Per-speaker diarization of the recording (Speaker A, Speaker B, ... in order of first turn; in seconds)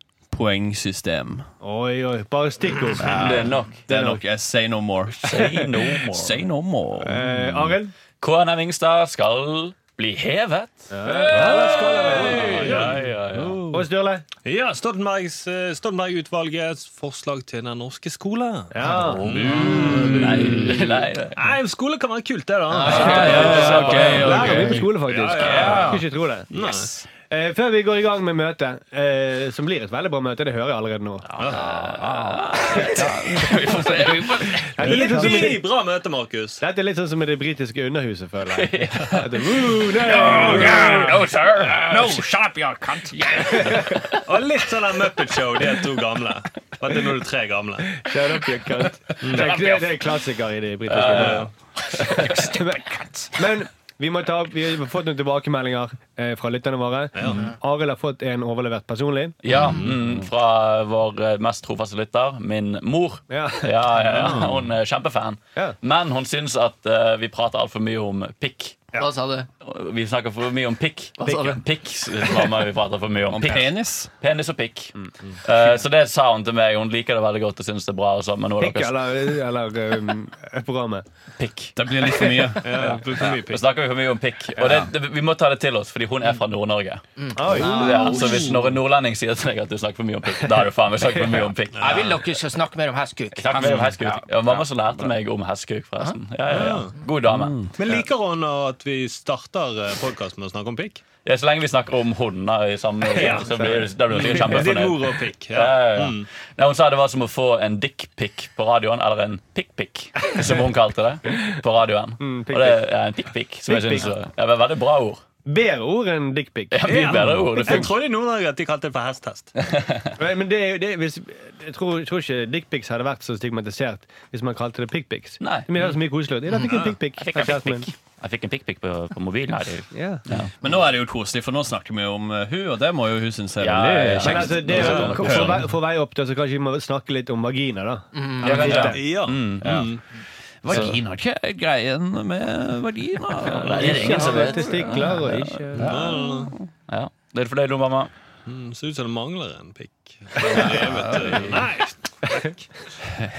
Speaker A: 0.3-1.4, 3.0-5.5, 6.0-7.8, 19.1-20.9, 22.8-26.0, 31.6-34.4, 40.1-44.0, 52.2-52.7, 73.3-74.1, 81.8-82.8, 84.6-84.9, 87.6-88.4, 97.3-97.7, 130.6-135.7, 140.6-145.1, 145.7-146.7, 150.8-151.5
Speaker B: 1.6-4.2, 5.3-5.7, 7.0-7.9, 10.9-12.8, 13.7-14.2, 18.7-20.7, 23.1-26.5, 27.3-31.3, 34.6-35.6, 36.6-41.2, 48.0-51.5, 52.1-59.4, 63.3-64.5, 71.2-71.6, 78.6-81.0, 87.3-88.2, 103.2-104.7, 112.2-112.8, 113.7-114.1, 115.4-117.8, 120.2-127.9, 129.9-130.2, 134.2-139.0, 143.7-145.9
Speaker C: 3.0-3.8, 5.2-6.4, 8.2-13.8, 18.8-21.4, 22.8-24.8, 31.3-35.5, 38.5-42.2, 43.5-44.2, 50.9-52.4, 59.4-68.9, 69.6-79.1, 81.4-92.2, 93.3-98.0, 101.2-115.2, 116.7-117.9, 119.6-120.2, 125.4-125.9, 127.2-130.5, 133.6-135.6, 138.4-140.0, 140.7-141.0, 143.4-145.6, 146.9-148.1, 150.4-151.6
Speaker D: 11.3-13.1, 14.4-20.8, 21.3-26.0, 26.5-27.0, 31.4-31.7, 34.8-36.6, 44.2-48.0, 49.2-49.7, 51.0-51.5, 57.1-57.4, 59.5-60.0, 64.1-64.5, 82.6-83.6, 88.0-88.7, 91.7-92.1, 93.5-93.9, 96.5-97.0, 97.8-101.0, 103.1-106.3, 116.8-119.5, 126.7-127.0, 134.7-135.3, 138.5-140.0, 145.8-146.5, 148.4-152.6
Speaker E: 22.7-23.3, 69.0-69.5, 71.2-71.6, 87.2-88.0, 91.8-94.2, 138.1-138.8